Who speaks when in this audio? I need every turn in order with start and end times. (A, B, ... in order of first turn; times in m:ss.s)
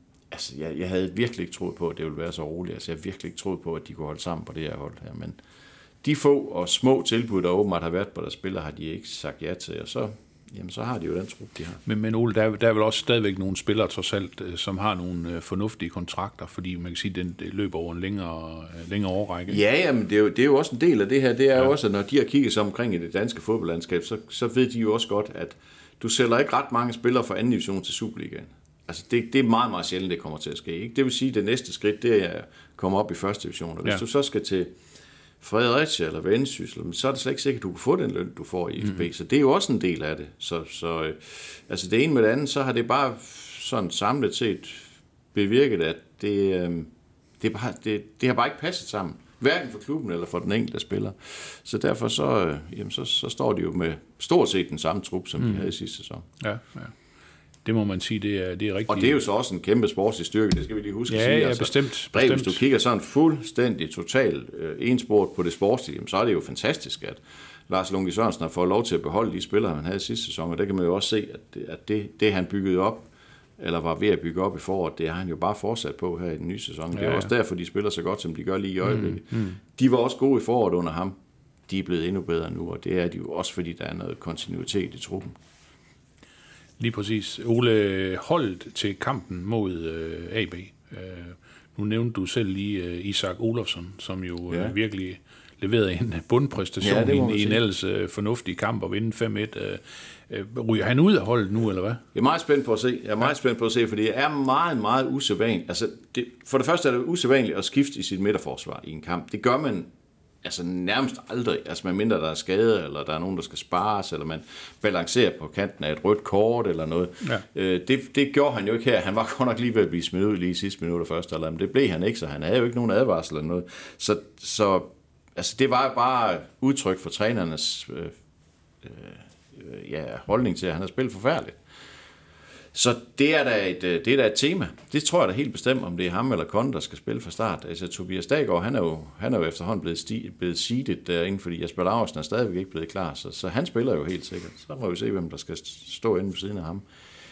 0:00.3-0:05.4 A
0:06.0-0:11.8 A
0:11.8-0:19.6 B
0:19.5-0:34.7 A
0:35.4-0:56.2 A
0:55.4-0:55.7 B
0:56.4-0:56.9 B
0:57.6-0:59.2 B
0:58.9-1:13.1 A
1:01.1-1:02.6 B
1:13.6-1:21.1 A
1:16.9-1:17.3 B
1:18.8-1:19.5 B
1:21.7-1:25.4 A
1:26.8-1:42.0 B
1:36.8-1:37.6 A
1:42.1-1:49.9 A
1:50.4-2:08.1 A
2:08.8-2:11.6 A
2:12.7-2:26.8 A